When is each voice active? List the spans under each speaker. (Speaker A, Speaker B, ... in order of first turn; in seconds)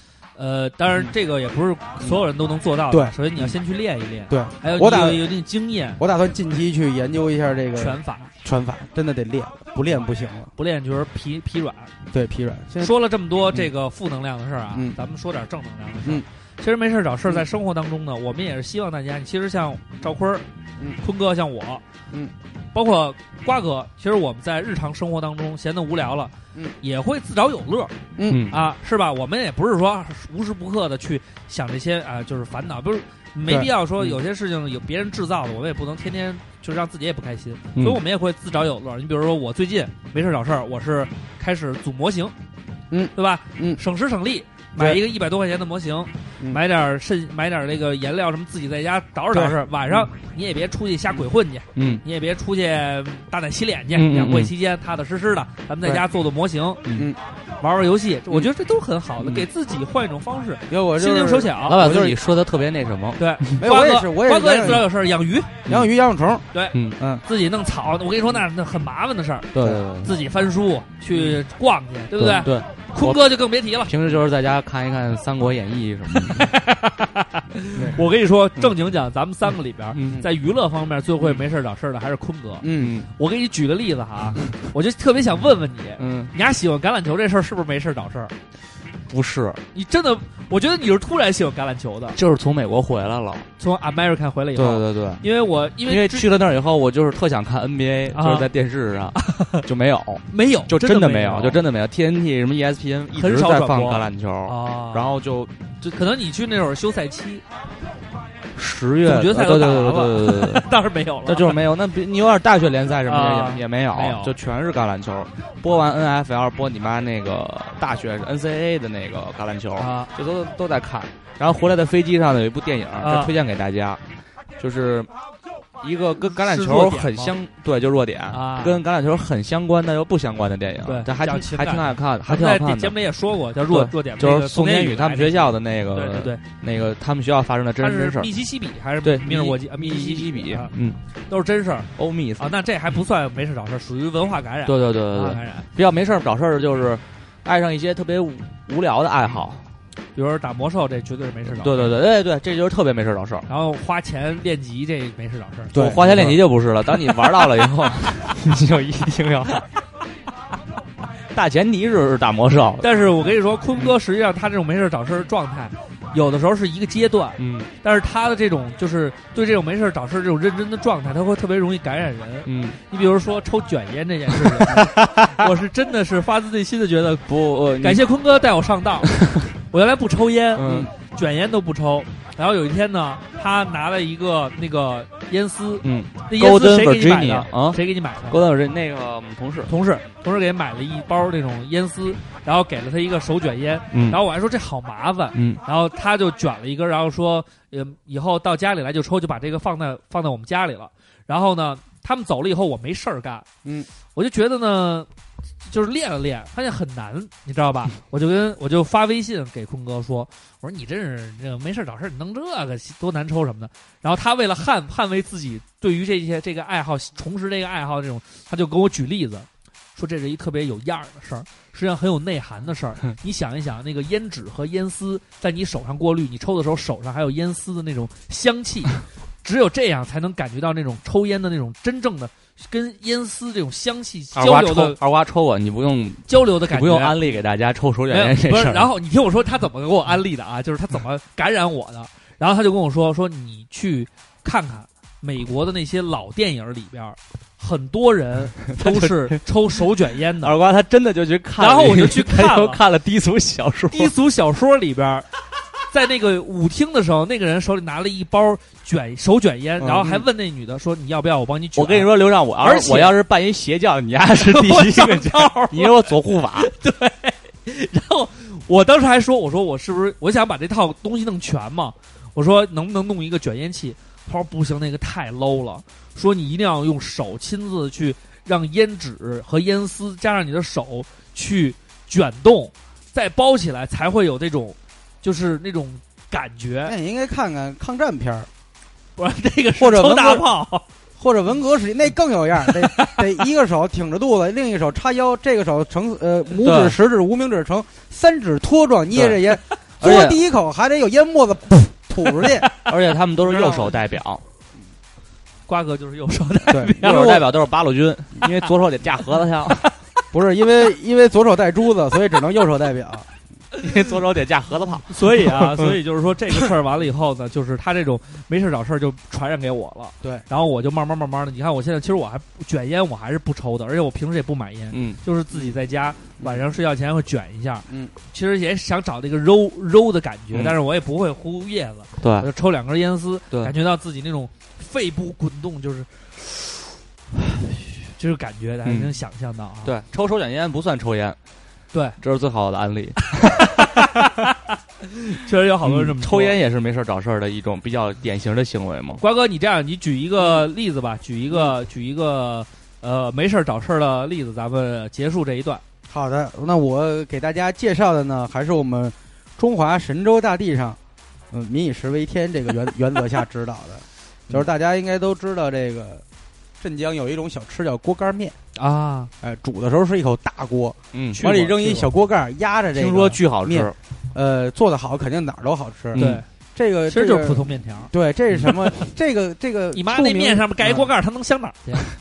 Speaker A: 0.3-6.0, 7.8-8.3, 10.6-11.9, 12.8-20.4, 21.0-21.8, 22.7-27.9, 28.5-42.3, 43.1-56.8, 57.6-61.8, 63.2-65.6, 66.5-73.9, 76.2-88.3, 89.7-92.2, 93.6-96.3, 98.1-98.5, 99.2-99.6, 100.3-101.6, 103.1-105.1, 105.9-107.4, 109.0-111.6, 113.0-114.3, 119.8-120.1, 123.0-123.3, 126.2-127.3, 128.3-128.8, 130.8-136.4, 137.8-140.7, 141.3-145.7, 150.1-151.9, 153.5-155.7, 162.8-177.3, 177.8-179.1, 179.7-188.4, 189.7-203.5, 204.1-205.1, 205.6-235.0, 236.3-237.3, 238.1-250.5, 251.6-252.8, 253.9-255.3, 255.9-263.2, 264.3-286.9, 289.1-290.9, 292.6-293.2, 302.4-302.9, 303.4-304.0, 305.7-307.5, 315.1-336.8, 338.0-339.9, 341.9-342.2, 343.4-346.6, 349.2-355.8, 368.8-369.3, 371.4-372.1, 376.1-376.4, 377.1-378.1, 378.6-379.1, 379.9-382.0
Speaker B: 2.9-3.5, 4.3-5.3, 6.0-10.5, 12.1-12.9, 28.1-28.5, 33.5-34.1, 42.9-43.8, 49.3-50.0, 60.7-62.2, 63.6-64.8, 65.7-66.4, 82.6-82.9, 155.7-156.4, 203.6-203.9, 286.8-288.5, 289.8-290.5, 291.2-302.7, 306.7-307.0, 310.3-313.3, 327.9-328.1, 356.1-361.0, 361.5-366.2, 366.8-368.6, 369.4-381.1
Speaker C: 28.3-28.6, 37.8-38.0, 51.8-52.0, 53.9-54.5, 56.8-57.1, 61.6-63.2, 66.7-67.0, 69.5-70.1, 72.2-73.2, 73.8-76.5, 79.9-80.2, 82.7-83.1, 86.0-86.3, 89.1-89.6, 92.2-93.5, 94.5-95.2, 95.9-105.9, 108.5-110.6, 111.2-124.0, 124.6-125.1, 125.8-133.0, 133.7-138.3, 139.0-141.0, 142.0-142.5, 144.7-149.6, 151.5-153.4, 155.7-159.6, 161.3-162.9, 167.4-167.7, 172.4-172.8, 174.7-175.4, 177.3-178.0, 179.1-179.5, 180.6-180.9, 185.8-189.7, 193.9-194.2, 195.3-195.6, 234.3-238.9, 248.8-249.4, 250.4-254.1, 259.8-260.2, 261.8-266.7, 296.6-297.0, 299.1-299.4, 300.0-300.4, 302.8-304.4, 307.0-309.9, 313.8-315.9, 324.9-325.2, 332.2-332.5, 338.8-339.1, 339.8-341.4, 342.2-343.8, 345.8-349.2, 371.1-371.5, 372.9-373.9, 376.1-376.4